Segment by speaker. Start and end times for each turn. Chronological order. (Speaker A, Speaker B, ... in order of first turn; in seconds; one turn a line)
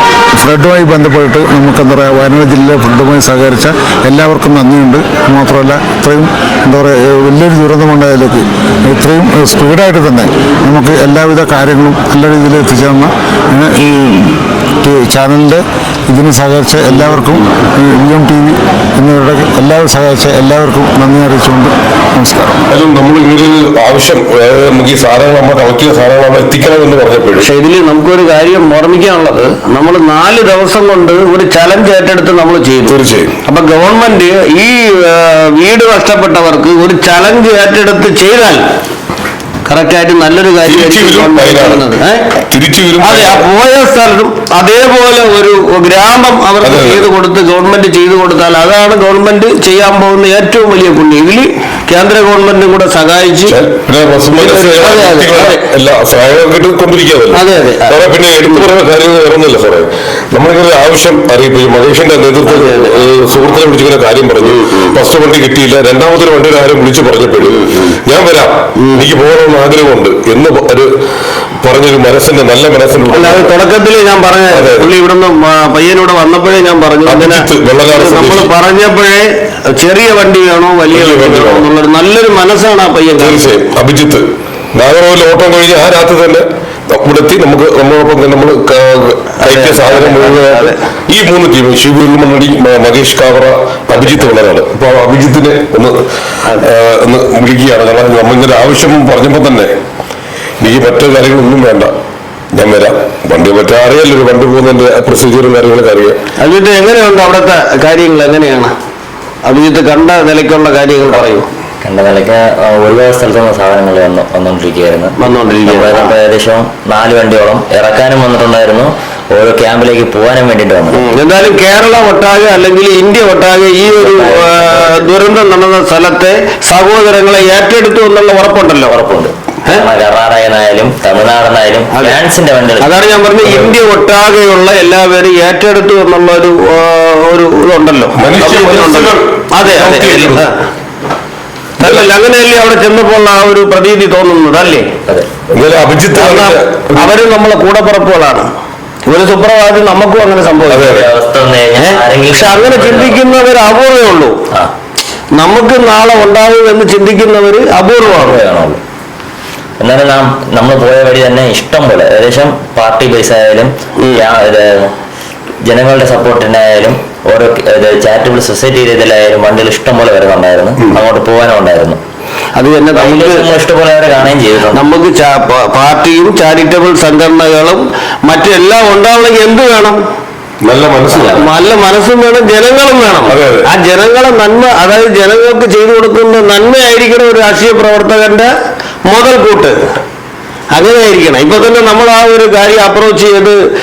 Speaker A: 0.4-22.6
Speaker B: 22.7-27.5
Speaker C: 27.4-33.0
Speaker B: 32.9-33.4
Speaker C: 33.5-38.6
Speaker C: 39.6-42.2
Speaker B: 40.6-41.9
Speaker B: 42.5-43.4
Speaker C: 43.0-53.6
Speaker B: 46.6-47.1
Speaker B: 53.5-70.9
Speaker C: 54.3-55.6
Speaker C: 57.3-58.7
Speaker C: 62.5-63.0
Speaker C: 64.4-65.0
Speaker C: 67.5-67.9
Speaker C: 68.8-69.0
Speaker B: 71.6-73.5
Speaker C: 73.1-83.5
Speaker B: 74.5-74.9
Speaker B: 77.0-78.5
Speaker B: 80.9-81.7
Speaker B: 83.1-99.7
Speaker C: 89.4-90.7
Speaker C: 93.9-94.3
Speaker B: 100.6-101.9
Speaker B: 102.5-106.2
Speaker C: 106.4-108.7
Speaker C: 109.5-111.5
Speaker D: 111.8-121.0
Speaker C: 115.2-116.1
Speaker C: 120.9-128.9
Speaker D: 123.9-125.1
Speaker D: 128.9-132.9
Speaker C: 132.8-140.5
Speaker B: 138.2-140.4
Speaker C: 141.8-144.9
Speaker B: 141.8-142.1
Speaker B: 145.5-147.2
Speaker C: 146.1-148.5
Speaker C: 149.1-151.0
Speaker B: 150.7-151.1
Speaker D: 150.7-153.2
Speaker C: 151.8-154.4
Speaker C: 155.3-158.4
Speaker D: 158.0-158.8
Speaker D: 159.8-164.9
Speaker D: 165.6-172.0
Speaker C: 172.6-173.4
Speaker D: 172.9-174.8
Speaker C: 174.7-180.0
Speaker B: 180.6-181.5
Speaker C: 181.1-188.5
Speaker B: 183.2-183.7
Speaker C: 189.1-189.8
Speaker C: 190.7-193.6